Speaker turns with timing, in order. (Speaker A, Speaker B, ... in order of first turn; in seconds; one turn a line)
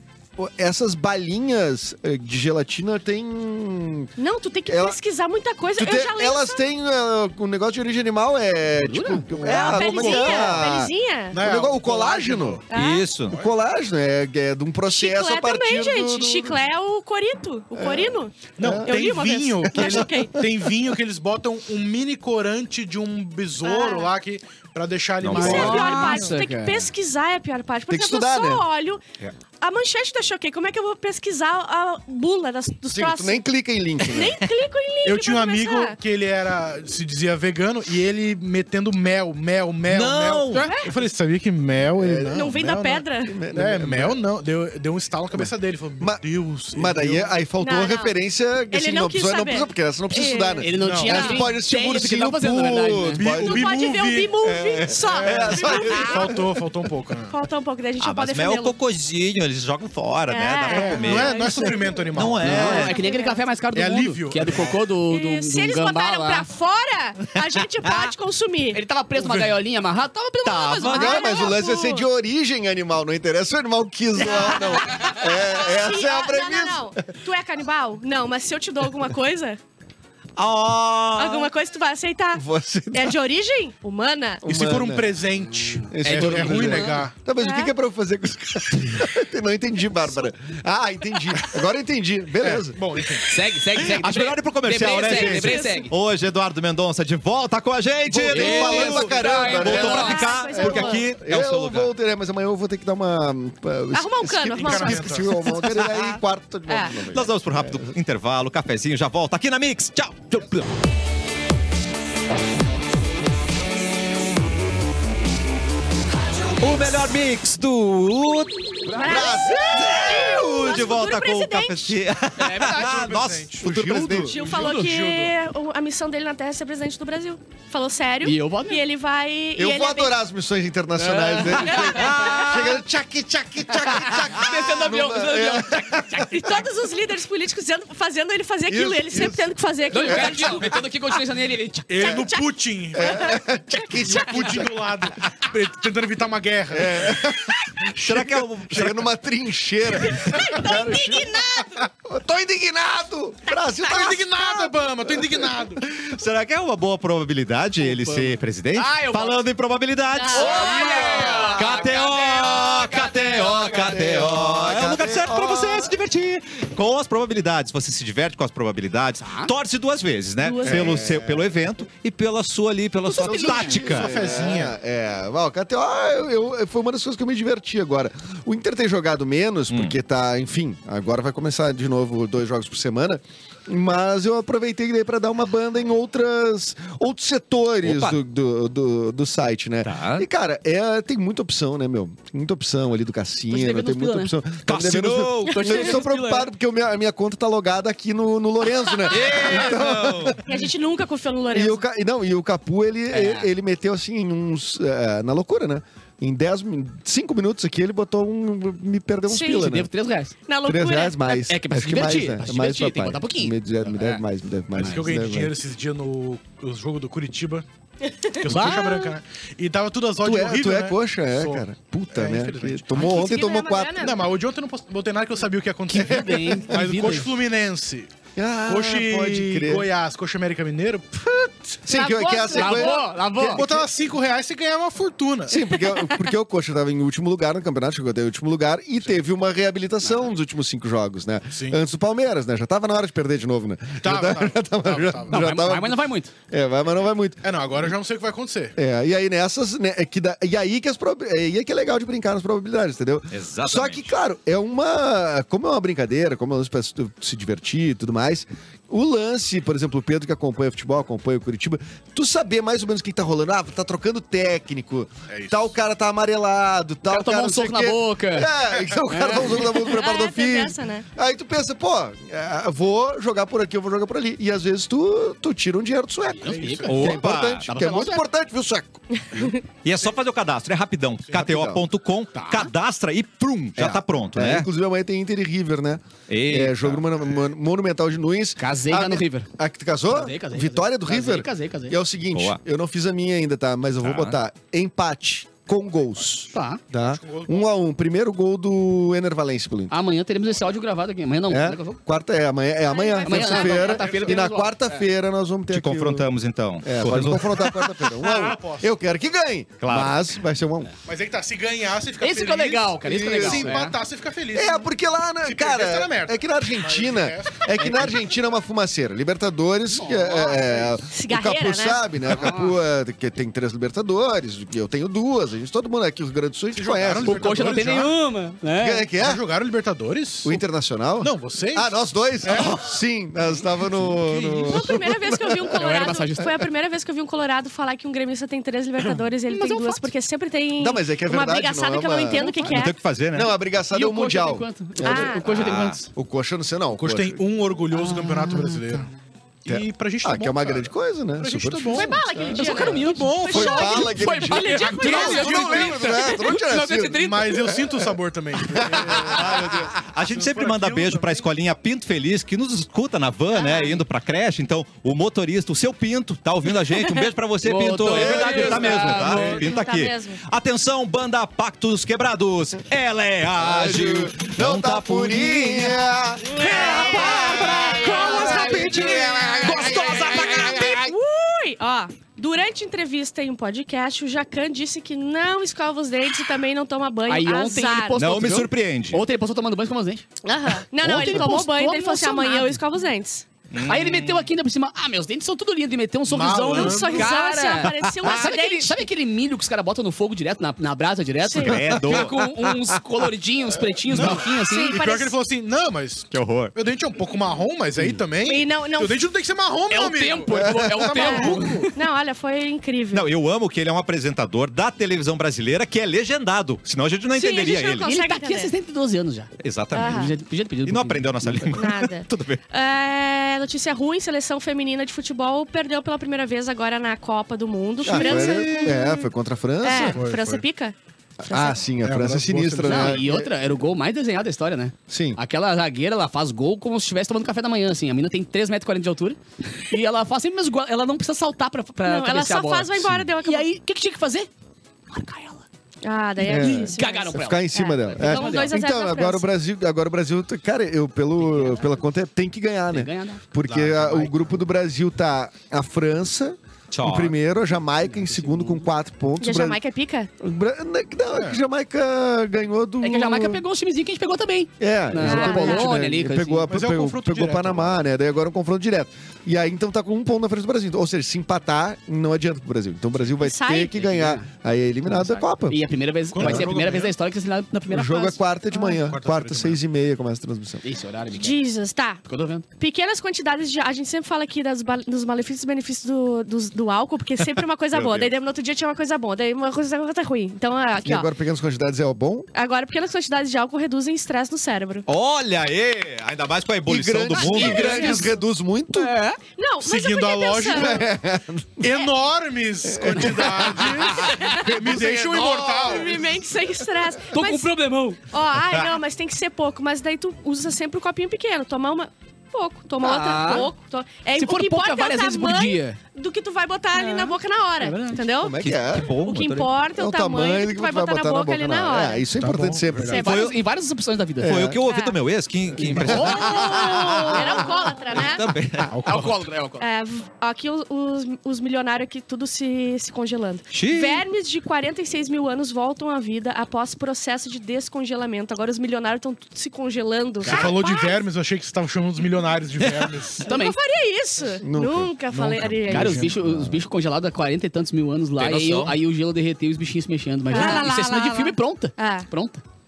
Speaker A: 0.4-4.1
Speaker B: 4.2-6.6
Speaker A: 4.7-5.0
Speaker A: 5.8-12.6
Speaker C: 8.8-9.3
Speaker D: 9.4-10.6
Speaker B: 9.4-11.4
Speaker E: 9.7-10.0
Speaker D: 11.3-12.7
Speaker B: 12.7-13.1
Speaker E: 12.7-13.4
Speaker A: 13.3-16.6
Speaker B: 14.9-20.4
Speaker A: 17.7-18.9
Speaker D: 18.6-26.3
Speaker A: 19.7-20.1
Speaker B: 23.6-24.1
Speaker E: 25.2-26.1
Speaker C: 25.3-26.9
Speaker B: 25.3-29.0
Speaker A: 27.9-28.6
Speaker B: 29.6-33.4
Speaker A: 32.9-34.4
Speaker B: 34.1-36.0
Speaker D: 35.0-43.0
Speaker E: 39.9-40.7
Speaker C: 40.5-40.8
Speaker B: 40.5-40.9
Speaker A: 41.9-44.2
Speaker B: 42.3-43.4
Speaker D: 43.5-47.3
Speaker A: 45.3-53.7
Speaker B: 47.6-48.1
Speaker B: 48.7-51.5
Speaker C: 50.6-53.2
Speaker D: 50.8-51.3
Speaker D: 53.1-54.4
Speaker B: 53.4-56.4
Speaker A: 54.4-56.5
Speaker D: 55.0-57.4
Speaker B: 57.3-58.7
Speaker E: 58.0-61.6
Speaker B: 60.3-62.0
Speaker D: 60.7-62.9
Speaker E: 62.1-63.0
Speaker C: 62.4-66.5
Speaker B: 62.5-63.4
Speaker D: 63.7-64.8
Speaker B: 65.1-68.8
Speaker C: 68.7-71.4
Speaker E: 70.4-71.3
Speaker B: 70.8-72.1
Speaker A: 70.9-76.9
Speaker B: 74.4-79.6
Speaker E: 80.4-81.5
Speaker B: 81.2-84.4
Speaker A: 82.3-83.2
Speaker A: 84.4-85.2
Speaker D: 84.5-87.1
Speaker C: 85.4-87.0
Speaker A: 85.9-92.8
Speaker B: 87.4-87.7
Speaker D: 92.4-93.3
Speaker C: 93.3-95.9
Speaker E: 93.7-101.9
Speaker B: 94.9-95.8
Speaker A: 98.1-108.0
Speaker C: 98.3-100.3
Speaker B: 99.5-101.1
Speaker B: 103.9-105.5
Speaker D: 104.5-105.3
Speaker E: 105.7-106.0
Speaker B: 106.7-107.0
Speaker E: 107.0-110.6
Speaker E: 116.6-124.3
Speaker C: 118.9-119.3
Speaker B: 118.9-122.0
Speaker A: 118.9-120.5
Speaker C: 122.4-123.0
Speaker D: 122.5-125.3
Speaker A: 123.6-124.4
Speaker B: 124.3-130.2
Speaker C: 124.4-124.8
Speaker C: 128.2-128.8
Speaker A: 129.6-136.4
Speaker C: 131.0-132.5
Speaker B: 131.6-132.7
Speaker E: 131.8-132.6
Speaker C: 133.8-136.3
Speaker B: 136.1-140.8
Speaker A: 138.7-139.5
Speaker C: 139.9-142.2
Speaker A: 140.0-140.7
Speaker D: 141.9-143.4
Speaker B: 142.1-143.3
Speaker A: 142.9-144.7
Speaker D: 143.9-147.3
Speaker B: 144.0-144.4
Speaker A: 146.7-156.1
Speaker E: 147.9-149.1
Speaker B: 150.0-151.9
Speaker D: 153.8-155.8
Speaker E: 156.1-174.2
Speaker C: 157.8-159.4
Speaker B: 160.2-161.6
Speaker C: 160.2-164.2
Speaker A: 163.6-165.9
Speaker C: 169.2-169.5
Speaker B: 170.4-171.1
Speaker A: 170.6-171.5
Speaker C: 173.1-173.8
Speaker A: 173.2-200.4
Speaker D: 173.7-174.7
Speaker E: 187.8-188.2
Speaker E: 189.8-190.2
Speaker C: 193.5-194.3
Speaker E: 194.7-196.0
Speaker C: 195.4-196.5
Speaker B: 195.5-195.8
Speaker E: 199.1-200.4
Speaker B: 200.4-201.8
Speaker A: 201.5-209.9
Speaker C: 203.1-203.5
Speaker B: 209.3-209.7
Speaker C: 209.5-210.3
Speaker B: 210.5-211.4
Speaker A: 210.7-215.6
Speaker C: 211.4-214.2
Speaker D: 214.7-217.6
Speaker C: 214.8-215.2
Speaker D: 218.3-223.3
Speaker C: 218.4-219.1
Speaker A: 220.2-224.1
Speaker B: 222.9-224.2
Speaker D: 224.0-228.1
Speaker C: 225.9-227.3
Speaker A: 225.9-227.0
Speaker A: 228.4-229.9
Speaker D: 228.7-231.7
Speaker A: 231.8-233.0
Speaker B: 231.9-233.0
Speaker C: 232.5-233.7
Speaker D: 232.8-235.6
Speaker A: 233.5-233.8
Speaker A: 235.5-247.4
Speaker B: 235.9-236.2
Speaker D: 241.5-241.8
Speaker D: 244.0-245.5
Speaker C: 245.3-246.3
Speaker D: 247.4-248.8
Speaker A: 248.8-279.5
Speaker E: 253.3-254.1
Speaker D: 265.3-265.7
Speaker C: 267.1-268.5
Speaker C: 269.1-269.7
Speaker B: 269.7-271.1
Speaker C: 276.3-278.2
Speaker D: 276.4-277.1
Speaker E: 276.9-277.7
Speaker E: 279.8-284.7
Speaker A: 281.3-281.8
Speaker C: 282.4-282.6
Speaker A: 283.8-299.9
Speaker E: 286.3-287.0
Speaker C: 288.6-289.5
Speaker C: 290.1-292.0
Speaker E: 292.3-292.6
Speaker E: 294.0-294.4
Speaker C: 296.5-296.8
Speaker D: 297.1-297.7
Speaker C: 299.9-302.0
Speaker A: 301.5-306.3
Speaker B: 302.9-304.1
Speaker C: 303.2-305.0
Speaker D: 304.0-304.4
Speaker E: 305.7-307.9
Speaker A: 306.8-310.9
Speaker D: 308.1-308.9
Speaker E: 309.8-310.2
Speaker D: 311.1-314.9
Speaker C: 312.2-313.9
Speaker A: 313.0-313.8
Speaker A: 314.5-327.8
Speaker D: 315.4-317.6
Speaker C: 317.8-318.1
Speaker C: 319.9-320.9
Speaker B: 321.1-322.0
Speaker C: 322.3-322.7
Speaker D: 326.7-328.1
Speaker C: 327.2-329.1
Speaker A: 328.8-329.4
Speaker D: 329.2-330.6
Speaker A: 330.4-335.8
Speaker D: 331.2-331.9
Speaker D: 332.4-332.8
Speaker C: 334.0-334.8
Speaker B: 334.6-342.9
Speaker C: 335.7-336.6
Speaker C: 339.5-340.1
Speaker A: 340.8-342.6
Speaker E: 342.6-343.5
Speaker A: 343.3-345.4
Speaker C: 343.9-346.1
Speaker B: 345.0-345.4
Speaker E: 345.5-346.0
Speaker A: 346.1-347.4
Speaker D: 347.0-349.1
Speaker C: 347.9-349.1
Speaker D: 349.6-354.1
Speaker A: 349.6-352.9
Speaker B: 351.9-355.9
Speaker C: 352.5-357.7
Speaker A: 353.4-359.9
Speaker D: 354.6-356.3
Speaker D: 357.2-361.5
Speaker E: 359.2-381.1
Speaker B: 363.5-364.0
Speaker B: 366.9-367.2
Speaker C: 367.6-369.7
Speaker A: 368.1-369.2
Speaker B: 369.1-370.4
Speaker A: 373.6-380.5
Speaker B: 376.5-388.2
Speaker C: 378.2-378.6
Speaker C: 379.6-380.4
Speaker C: 387.3-390.2
Speaker E: 388.1-389.2
Speaker B: 390.4-393.4
Speaker C: 391.0-392.8
Speaker E: 391.1-391.4
Speaker E: 393.7-394.5
Speaker C: 393.9-405.0
Speaker D: 396.3-397.3
Speaker B: 396.6-399.0
Speaker B: 401.4-401.8
Speaker E: 401.6-403.0
Speaker D: 404.1-411.9
Speaker B: 404.6-405.3
Speaker E: 406.3-406.7
Speaker B: 408.4-409.2
Speaker C: 409.9-411.9
Speaker A: 410.5-411.2
Speaker B: 411.1-413.3
Speaker E: 413.1-418.1
Speaker B: 417.4-418.7
Speaker C: 418.0-421.9
Speaker E: 419.6-420.3
Speaker B: 419.9-420.3
Speaker E: 420.9-422.6
Speaker B: 421.7-429.3
Speaker A: 428.0-430.2
Speaker D: 428.1-428.9
Speaker B: 429.8-430.9
Speaker D: 430.1-430.6
Speaker A: 431.4-433.5
Speaker B: 431.4-431.8
Speaker D: 432.0-433.2
Speaker C: 432.8-444.5
Speaker A: 435.1-435.4
Speaker B: 442.0-443.7
Speaker C: 445.1-445.6
Speaker B: 446.0-449.5
Speaker A: 446.4-459.8
Speaker C: 446.4-448.8
Speaker C: 451.4-452.0
Speaker C: 452.9-453.4
Speaker D: 453.7-454.3
Speaker E: 456.9-457.4
Speaker C: 458.0-458.9
Speaker B: 459.4-460.3
Speaker A: 460.4-463.6
Speaker D: 461.3-461.6
Speaker C: 463.0-466.7
Speaker A: 464.8-475.8
Speaker B: 465.2-465.9
Speaker D: 466.7-467.9
Speaker B: 473.4-473.9
Speaker C: 473.9-474.5
Speaker C: 475.1-478.4
Speaker D: 476.3-477.1
Speaker A: 476.4-476.7
Speaker A: 477.9-480.8
Speaker B: 478.7-479.0
Speaker D: 478.9-479.8
Speaker C: 480.8-481.6
Speaker B: 481.3-482.2
Speaker C: 482.2-482.6
Speaker B: 482.8-491.3
Speaker E: 487.9-488.3
Speaker A: 491.0-492.5
Speaker B: 492.5-495.1
Speaker E: 495.1-498.1
Speaker A: 496.9-499.1
Speaker B: 497.4-498.3
Speaker C: 497.5-498.3
Speaker C: 498.9-499.4
Speaker B: 499.6-501.0
Speaker D: 499.8-501.1
Speaker A: 500.6-501.9
Speaker D: 501.8-506.2
Speaker A: 502.9-504.2
Speaker B: 504.1-504.7
Speaker C: 504.1-506.0
Speaker B: 505.3-507.7
Speaker C: 507.3-508.2
Speaker B: 508.3-522.2
Speaker C: 513.0-513.7
Speaker C: 514.4-516.0
Speaker C: 516.9-518.2
Speaker A: 518.4-519.1
Speaker E: 518.6-519.7
Speaker A: 519.9-523.2
Speaker D: 522.4-523.2
Speaker B: 523.1-523.5
Speaker C: 523.1-524.6
Speaker E: 523.2-523.6
Speaker A: 524.4-524.8
Speaker E: 524.4-527.5
Speaker B: 524.9-525.2
Speaker C: 525.8-527.1
Speaker B: 526.1-528.5
Speaker E: 528.1-529.0
Speaker D: 528.9-529.4
Speaker C: 529.0-529.9
Speaker B: 529.8-541.2
Speaker E: 533.7-534.2
Speaker C: 540.4-540.8
Speaker D: 540.4-543.5
Speaker E: 542.8-543.1
Speaker C: 543.4-543.8
Speaker B: 543.4-546.2
Speaker A: 544.6-546.9
Speaker D: 545.4-546.3
Speaker C: 545.9-552.6
Speaker E: 548.4-549.0
Speaker B: 550.5-552.3